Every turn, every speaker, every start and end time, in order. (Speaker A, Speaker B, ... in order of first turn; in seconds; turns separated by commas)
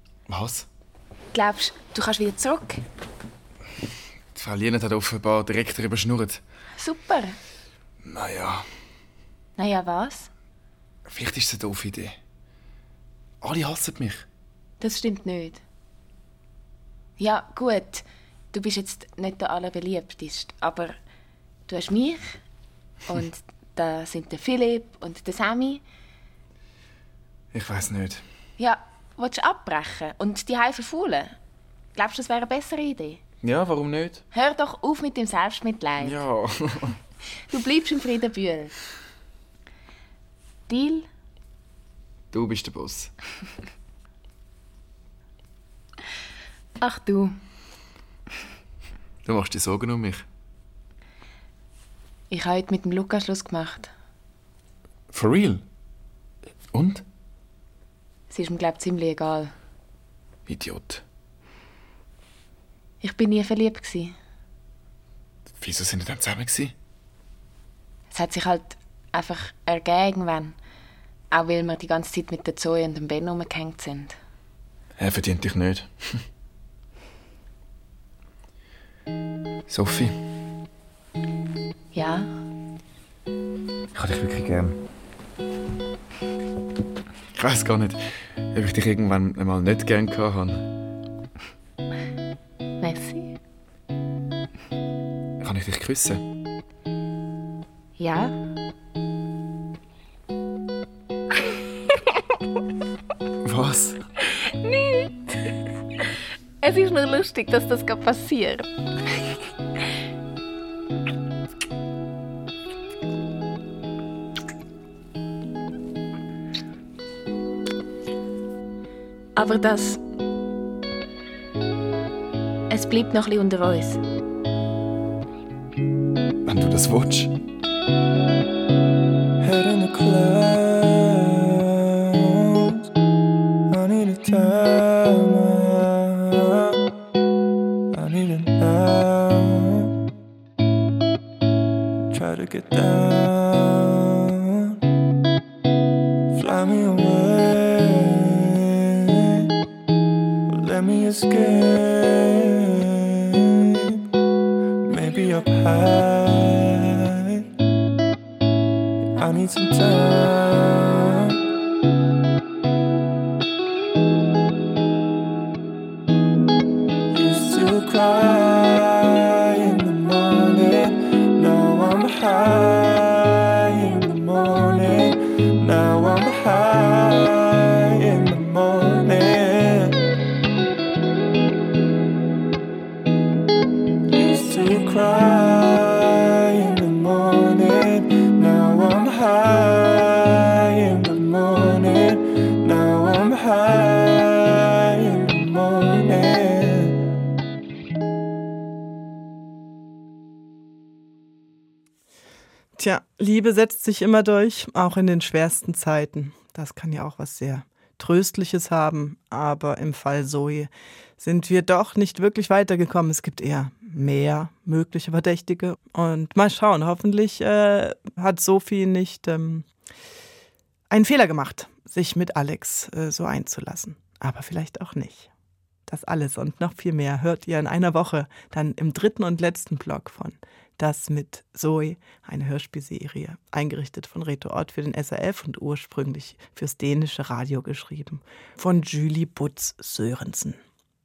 Speaker A: 0.3-0.7, Speaker B: 1.3-2.8, Speaker A: 4.3-6.4, Speaker B: 6.8-7.4, Speaker A: 8.0-8.6, Speaker B: 9.6-10.3, Speaker A: 11.1-12.2, Speaker A: 13.4-14.2, Speaker B: 14.8-15.6, Speaker B: 17.2-20.9, Speaker B: 21.7-22.4, Speaker B: 23.1-25.8, Speaker A: 27.5-28.2, Speaker B: 28.6-31.4, Speaker B: 31.9-33.2, Speaker A: 33.4-34.2, Speaker B: 34.3-36.2, Speaker A: 36.0-37.0, Speaker B: 37.5-38.7, Speaker B: 40.7-41.1, Speaker A: 42.3-43.1, Speaker B: 46.8-47.4, Speaker A: 49.2-50.2, Speaker B: 52.3-53.9, Speaker A: 55.1-55.6, Speaker A: 56.7-57.0, Speaker B: 58.3-59.5, Speaker A: 60.5-61.0, Speaker B: 63.0-64.2, Speaker A: 65.6-66.7, Speaker B: 68.1-70.6, Speaker B: 71.3-74.2, Speaker A: 75.0-76.1, Speaker A: 79.7-80.2, Speaker B: 81.9-82.3, Speaker A: 83.9-84.8, Speaker A: 87.3-90.6, Speaker B: 92.8-93.3, Speaker A: 95.4-96.2, Speaker B: 98.0-98.3, Speaker A: 103.5-104.0, Speaker B: 106.6-108.7, Speaker B: 119.4-120.0, Speaker B: 122.7-124.0, Speaker A: 126.5-127.3, Speaker C: 129.4-132.9, Speaker C: 133.7-136.8, Speaker C: 137.9-139.9, Speaker C: 142.1-144.8, Speaker C: 146.3-149.5, Speaker C: 150.5-154.0, Speaker C: 154.8-157.4, Speaker C: 159.2-161.4, Speaker C: 167.1-180.0, Speaker C: 184.1-196.9, Speaker D: 202.8-219.7, Speaker D: 220.9-225.3, Speaker D: 225.9-240.6